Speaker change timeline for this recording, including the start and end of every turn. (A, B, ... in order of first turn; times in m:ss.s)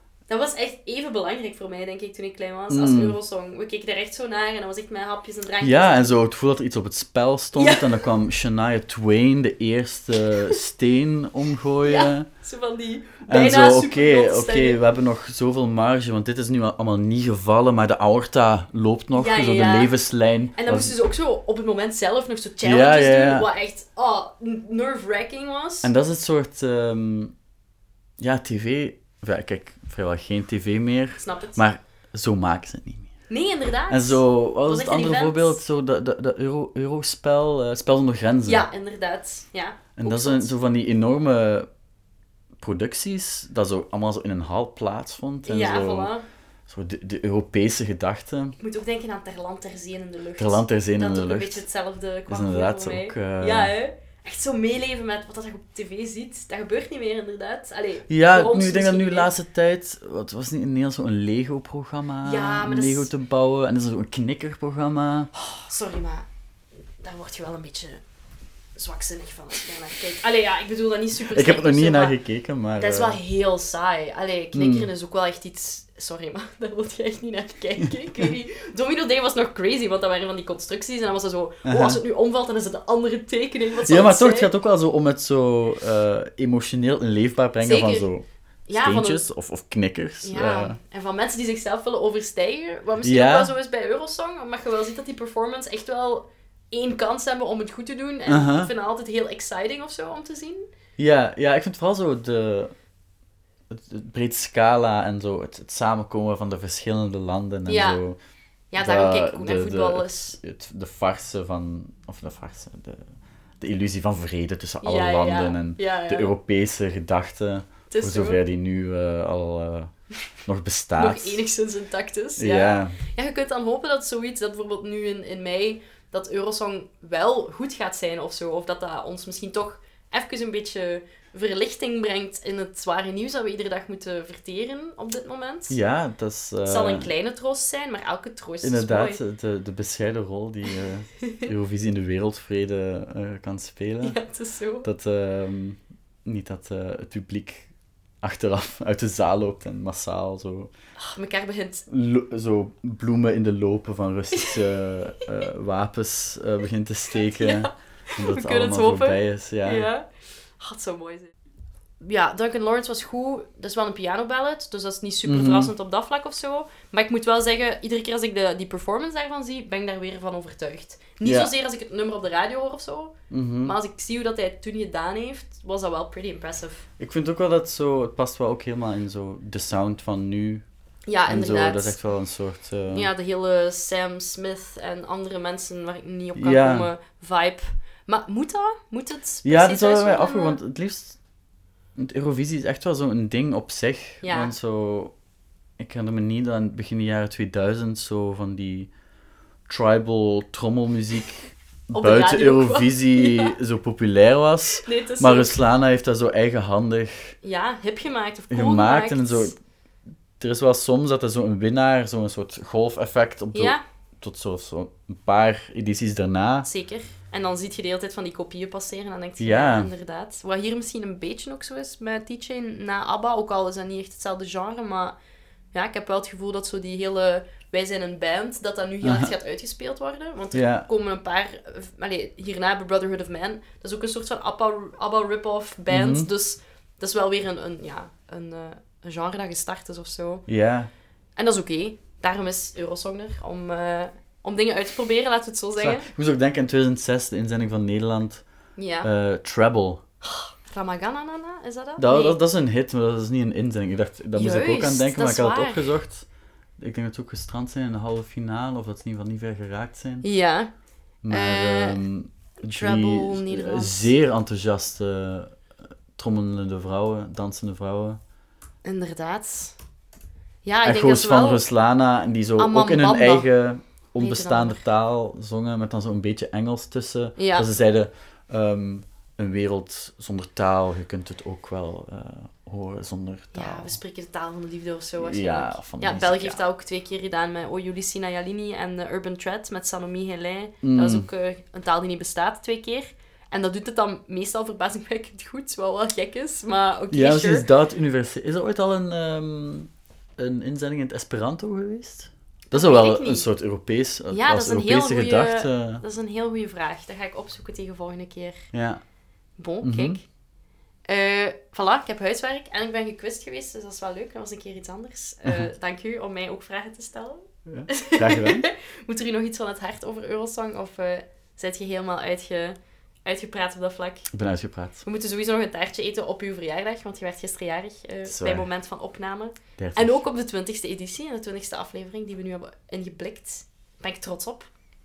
0:00.3-0:06.2 A
0:02.7-0:03.2 B
0:05.6-0:12.3 B
0:07.5-0:08.0 A
0:11.8-0:14.8 A
0:13.2-0:20.9 B
0:19.1-0:19.9 A
0:20.5-0:25.9 A
0:22.6-0:23.5 B
0:25.8-0:27.3 B
0:28.2-0:33.1 B
0:31.2-0:31.6 A
0:33.3-0:35.6 A
0:33.9-0:38.7 B
0:38.5-0:40.5 A
0:40.0-0:41.7 B
0:42.6-0:46.1 B
0:45.4-0:46.2 A
0:46.7-0:48.6 B
0:48.6-0:59.3 A
0:50.4-0:51.6 B
0:52.3-0:53.7 B
0:58.1-1:05.3 B
1:02.2-1:03.1 A
1:05.4-1:06.3 A
1:07.0-1:08.0 A
1:08.8-1:12.2 A
1:11.1-1:13.2 B
1:12.8-1:24.5 A
1:14.5-1:14.9 B
1:21.6-1:22.0 B
1:23.8-1:30.8 B
1:27.6-1:28.1 A
1:28.7-1:29.2 A
1:30.2-1:40.7 A
1:33.0-1:33.5 B
1:38.2-1:38.7 B
1:41.0-1:42.7 B
1:43.7-1:48.2 B
1:47.7-1:48.0 A
1:48.7-1:50.4 A
1:48.8-1:53.1 B
1:53.6-1:59.9 B
1:54.8-1:56.3 A
1:57.9-1:58.4 A
2:00.4-2:01.4 B
2:01.0-2:15.8 A
2:02.4-2:03.0 B
2:15.7-2:17.1 B
2:16.6-2:19.2 A
2:18.6-2:24.2 B
2:21.2-2:21.5 A
2:24.0-2:24.9 A
2:24.8-2:27.7 B
2:28.2-2:30.7 B
2:31.0-2:31.9 A
2:31.9-2:39.9 B
2:34.3-2:34.6 A
2:37.2-2:41.3 A
2:42.0-2:56.8 A
2:45.2-2:45.7 B
2:51.2-2:51.5 B
2:53.3-2:53.7 B
2:57.0-3:00.6 B
3:01.1-3:02.0 A
3:01.3-3:03.1 B
3:02.9-3:10.6 A
3:06.4-3:06.9 B
3:09.4-3:11.2 B
3:12.0-3:15.1 B
3:14.2-3:14.5 A
3:15.8-3:18.9 B
3:19.7-3:27.4 B
3:21.9-3:23.5 A
3:24.8-3:25.6 A
3:27.4-3:29.5 A
3:28.5-3:29.5 B
3:30.4-3:36.7 B
3:33.5-3:33.8 A
3:36.6-3:45.1 A
3:39.4-3:39.9 B
3:45.7-4:00.4 A
3:49.0-3:49.3 B
3:50.5-3:50.9 B
3:55.9-3:56.3 B
4:00.5-4:00.9 B
4:01.4-4:06.0 A
4:05.8-4:08.4 B
4:08.8-4:09.1 A
4:09.0-4:10.0 B
4:10.4-4:12.4 A
4:12.0-4:16.2 B
4:14.3-4:16.0 A
4:16.8-4:20.3 B
4:20.2-4:20.7 A
4:21.2-4:25.5 B
4:21.3-4:22.0 A
4:22.6-4:24.1 A
4:26.2-4:28.2 B
4:28.8-4:29.7 A
4:30.6-4:31.6 A
4:30.8-4:44.0 B
4:32.6-4:33.5 A
4:34.2-4:34.8 A
4:37.4-4:37.7 A
4:43.5-4:57.7 A
4:45.2-4:46.6 B
4:50.8-4:51.3 B
4:57.1-5:06.0 B
5:02.7-5:03.5 A
5:04.3-5:08.6 A
5:08.7-5:09.0 B
5:09.6-5:10.2 A
5:09.8-5:10.2 B
5:11.1-5:24.3 A
5:17.6-5:18.7 B
5:24.3-5:25.0 B
5:25.0-5:34.7 A
5:28.2-5:28.7 B
5:29.8-5:30.2 B